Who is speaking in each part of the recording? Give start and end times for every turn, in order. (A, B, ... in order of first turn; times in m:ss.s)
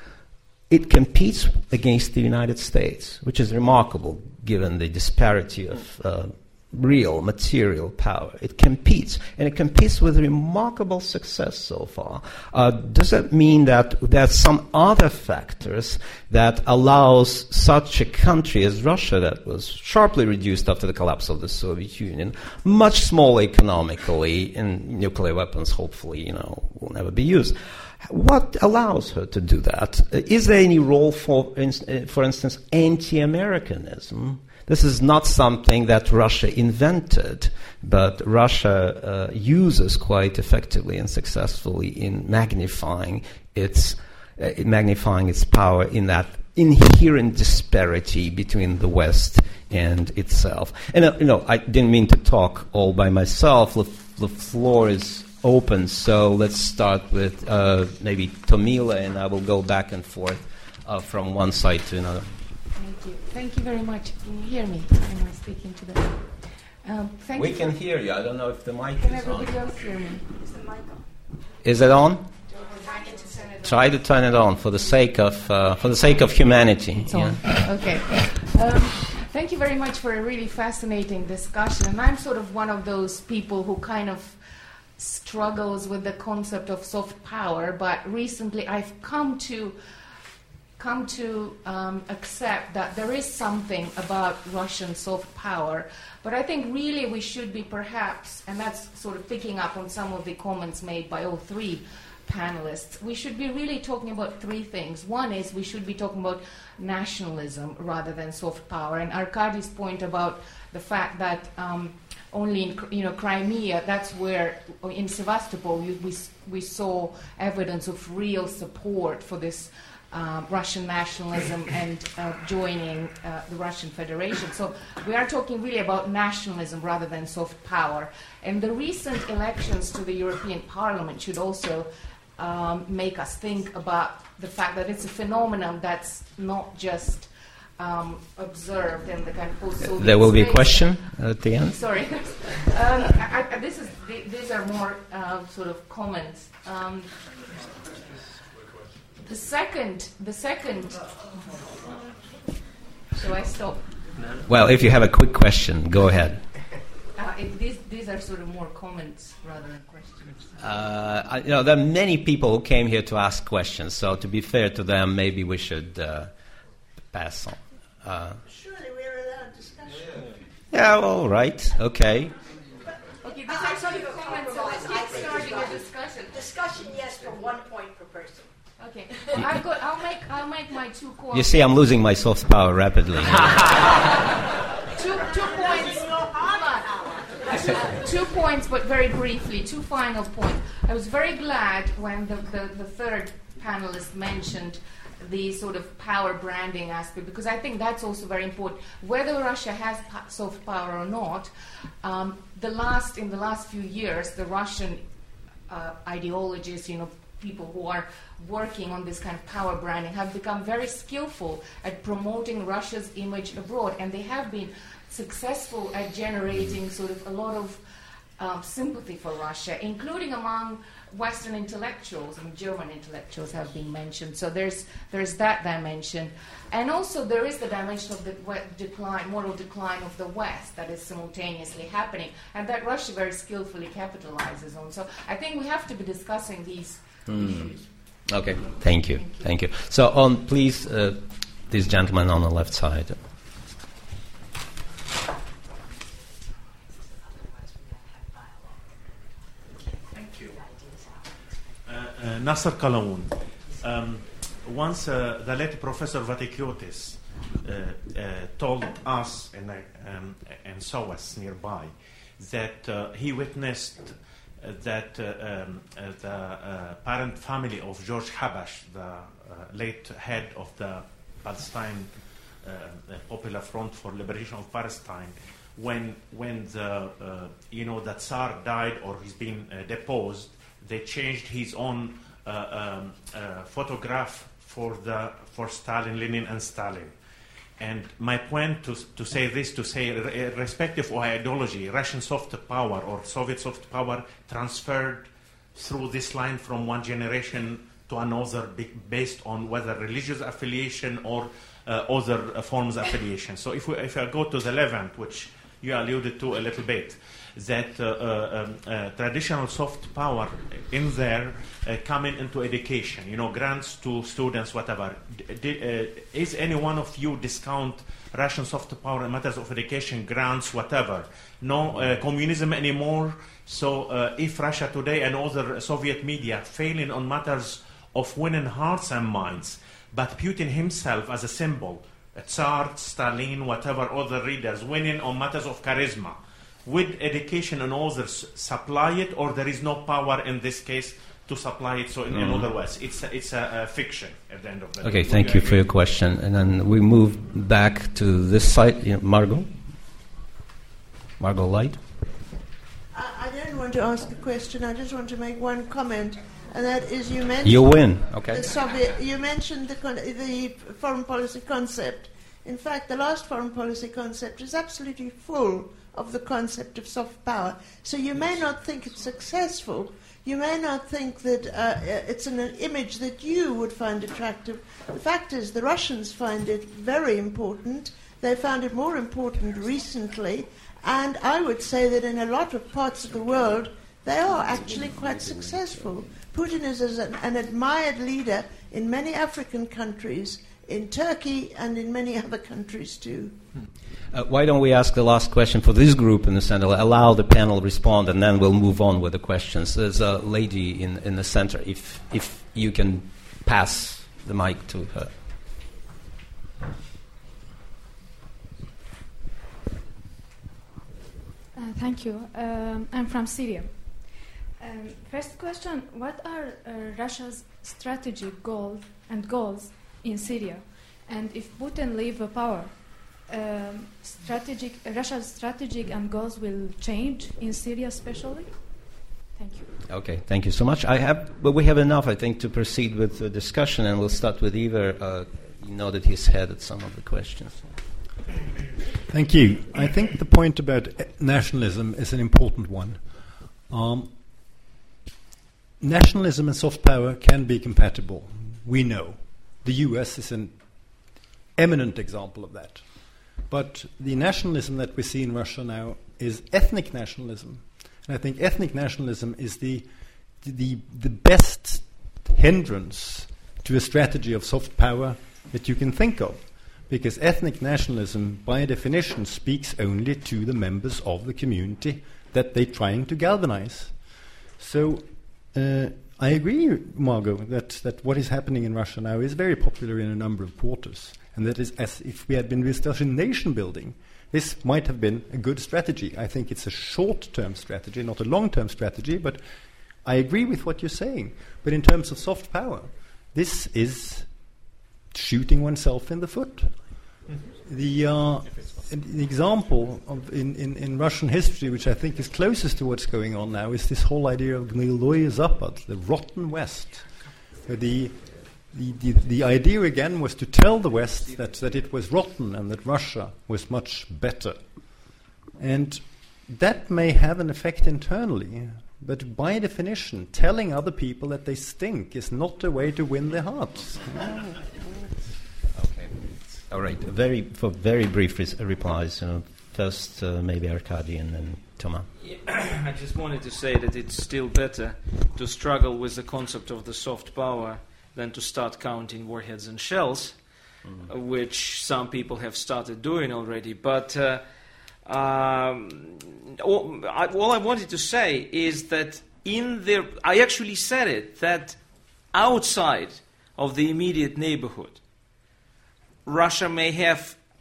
0:00.7-1:02.4 A
1:02.8-1:07.8 B
1:07.4-1:09.5 A
1:09.0-1:10.3 B
1:11.6-1:12.3 A
1:12.6-1:13.6 B
1:13.6-1:17.6 A
1:17.1-1:24.4 B
1:25.0-1:29.8 B
1:30.8-2:21.0 B
2:19.8-2:21.8 A
2:21.7-2:27.1 B
2:29.2-2:31.9 B
2:33.1-2:33.8 B
2:34.5-2:36.4 A
2:37.2-2:40.5 B
2:40.6-2:46.3 A
2:47.1-2:48.4 A
2:48.5-2:49.8 C
2:50.7-2:52.3 A
2:53.2-2:56.6 B
2:58.8-3:01.7 B
3:01.3-3:03.7 A
3:04.9-3:21.5 B
3:22.0-3:25.0 B
3:25.7-3:37.8 B
3:38.4-3:57.8 B
3:57.3-3:57.7 A
3:58.3-4:03.2 A
4:10.1-4:10.6 D
4:11.9-4:32.1 D
4:32.6-4:47.1 D
4:47.8-5:45.9 D
5:42.3-5:42.7 A
5:45.0-5:49.7 A
5:51.4-5:52.0 A
5:53.1-6:33.6 C
5:57.6-5:58.6 A
6:34.3-6:45.3 A
6:51.8-7:09.9 E
7:10.1-7:17.9 A
7:19.3-7:23.2 F
7:23.9-7:24.3 F
7:26.0-7:30.8 F
7:31.8-7:33.0 F
7:33.7-7:40.1 F
7:40.6-7:54.2 F
7:54.8-8:09.6 F
8:10.2-8:14.5 F
8:15.3-8:16.9 F
8:17.8-8:27.3 F
8:27.9-8:34.8 F
8:35.8-8:44.9 F
8:46.0-8:52.3 A
8:52.4-9:00.6 G
9:01.3-9:04.6 G
9:05.3-9:12.0 G
9:12.5-9:15.2 G
9:16.5-9:17.6 G